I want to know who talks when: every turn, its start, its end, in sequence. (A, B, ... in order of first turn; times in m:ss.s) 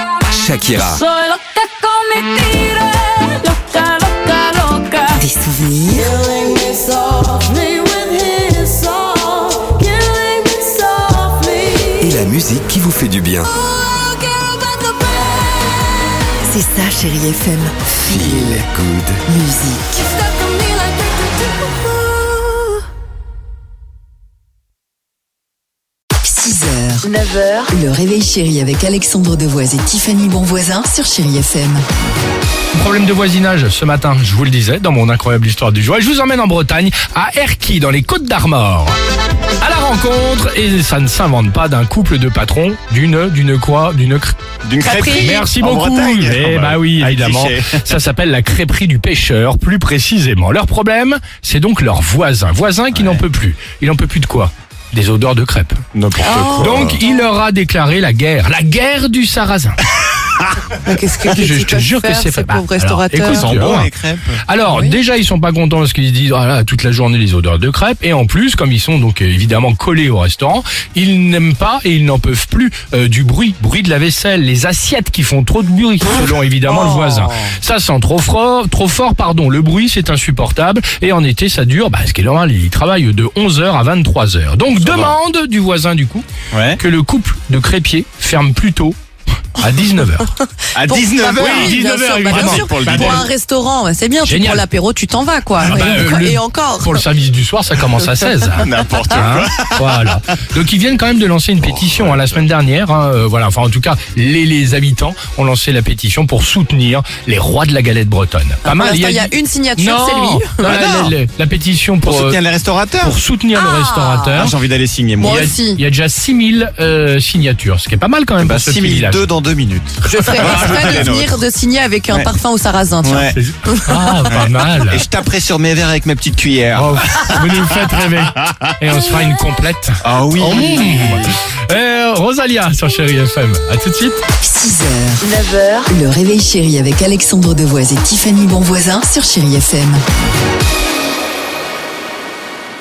0:00.3-0:01.0 A
0:01.2-0:05.0 B
0:05.1-0:06.2 C
0:06.2-0:11.9 B
0:12.0-0:13.5 A
0:16.4-0:18.7 C
0:18.0-0:19.2 A
0:19.3-0:20.2 C
0:26.2-0:27.1 C
0:27.7-0:31.8 C
0:32.7-0:39.0 D
0:39.6-0:44.4 D
0:44.6-0:47.9 E
0:44.8-0:45.5 F
0:45.1-0:55.8 D
0:52.9-0:53.2 E
0:55.9-0:57.0 E
0:56.2-0:57.1 F
0:56.6-0:59.8 D
1:00.7-1:03.5 F
1:01.3-1:03.9 D
1:03.2-1:04.4 E
1:04.4-1:26.3 D
1:04.7-1:05.0 F
1:16.7-1:17.3 F
1:24.8-1:25.2 E
1:26.5-1:26.8 E
1:26.8-1:29.0 D
1:29.5-1:30.3 D
1:30.8-1:31.8 E
1:30.8-1:37.0 F
1:31.4-1:33.3 D
1:32.3-1:33.3 E
1:34.2-1:34.6 D
1:35.6-1:52.4 D
1:35.7-1:36.0 E
1:37.9-1:40.0 E
1:41.6-1:42.2 E
1:48.6-1:51.0 F
1:50.7-1:51.1 E
1:52.0-1:53.2 E
1:53.0-1:54.5 D
1:53.6-1:54.4 F
1:54.4-1:55.5 E
1:55.2-1:55.8 F
1:55.2-1:59.2 D
1:58.4-2:01.4 E
2:00.0-2:04.3 F
2:00.6-2:00.8 D
2:03.0-2:03.4 E
2:03.3-2:05.0 D
2:04.3-2:07.6 E
2:06.8-2:14.2 D
2:10.0-2:11.4 E
2:14.4-2:15.3 C
2:15.3-2:15.8 F
2:15.9-2:20.0 C